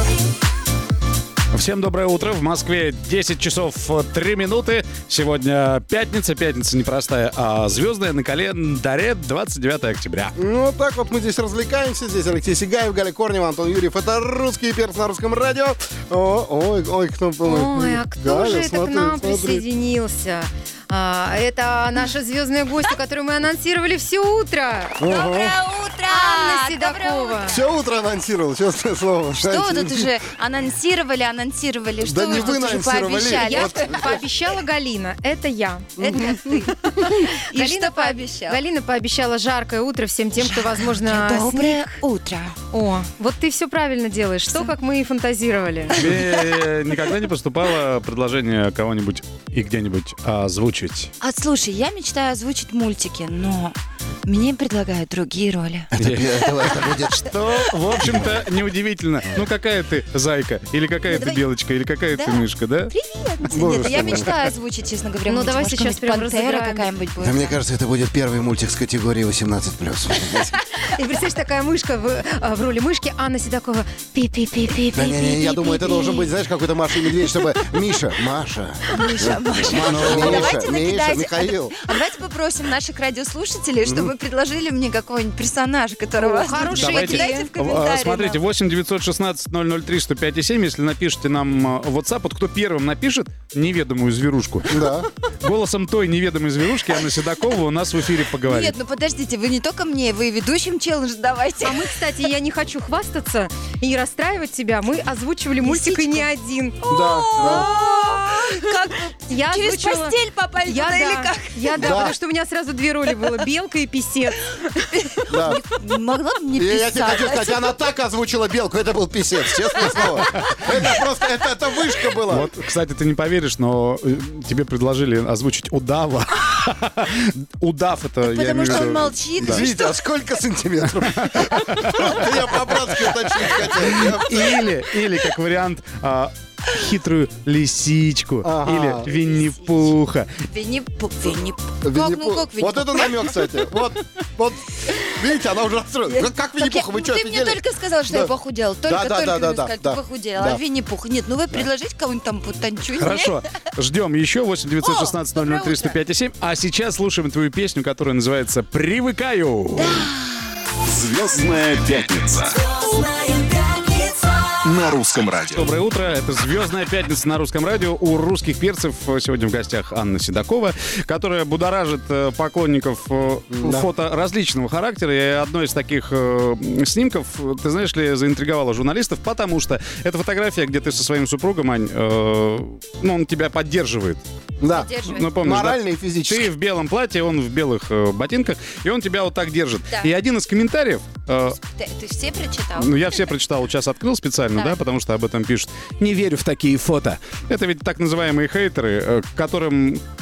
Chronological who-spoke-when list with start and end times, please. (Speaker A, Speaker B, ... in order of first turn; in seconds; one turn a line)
Speaker A: 1.5-10.3
Speaker B: 10.4-19.6
Speaker C: 17.4-25.0
Speaker B: 25.0-25.6
Speaker D: 25.1-27.7
Speaker C: 26.1-27.6
Speaker B: 27.5-30.2
Speaker D: 29.4-34.2
Speaker B: 32.0-34.2
Speaker C: 33.3-42.0
Speaker D: 36.0-38.6
Speaker D: 40.4-42.5
Speaker C: 42.7-46.0
Speaker D: 45.9-46.6
Speaker A: 45.9-51.1
Speaker D: 51.2-56.6
Speaker B: 55.9-57.3
Speaker A: 56.0-62.9
Speaker D: 61.1-61.4
Speaker D: 62.1-67.5
Speaker B: 63.5-64.3
Speaker C: 65.3-66.9
Speaker B: 67.2-70.5
Speaker C: 70.9-75.3
Speaker B: 74.9-81.7
Speaker D: 75.0-76.3
Speaker D: 78.9-88.4
Speaker A: 79.7-80.6
Speaker B: 83.8-84.1
Speaker C: 86.2-87.5
Speaker A: 86.7-98.7
Speaker B: 94.7-95.1
Speaker D: 98.4-101.9
Speaker C: 101.6-106.8
Speaker D: 105.6-106.3
Speaker D: 106.8-111.8
Speaker B: 106.9-107.7
Speaker C: 107.4-108.5
Speaker C: 109.3-115.2
Speaker B: 111.7-112.1
Speaker D: 115.1-117.7
Speaker B: 115.3-115.6
Speaker B: 116.5-122.5
Speaker D: 119.7-120.5
Speaker A: 122.3-129.7
Speaker D: 128.2-130.0
Speaker B: 128.6-134.6
Speaker A: 131.2-132.2
Speaker A: 132.9-140.3
Speaker B: 138.4-139.1
Speaker D: 139.0-143.5
Speaker B: 141.8-148.3
Speaker D: 146.1-153.4
Speaker B: 148.8-150.6
Speaker A: 152.9-160.1
Speaker D: 154.8-156.0
Speaker D: 159.7-160.7
Speaker E: 160.8-162.6
Speaker A: 161.4-162.1
Speaker E: 164.6-165.6
Speaker A: 165.5-184.2
Speaker B: 173.5-173.9
Speaker B: 184.6-186.5
Speaker D: 184.7-185.4
Speaker A: 185.0-191.6
Speaker D: 191.4-193.2
Speaker A: 192.8-200.0
Speaker D: 194.5-194.8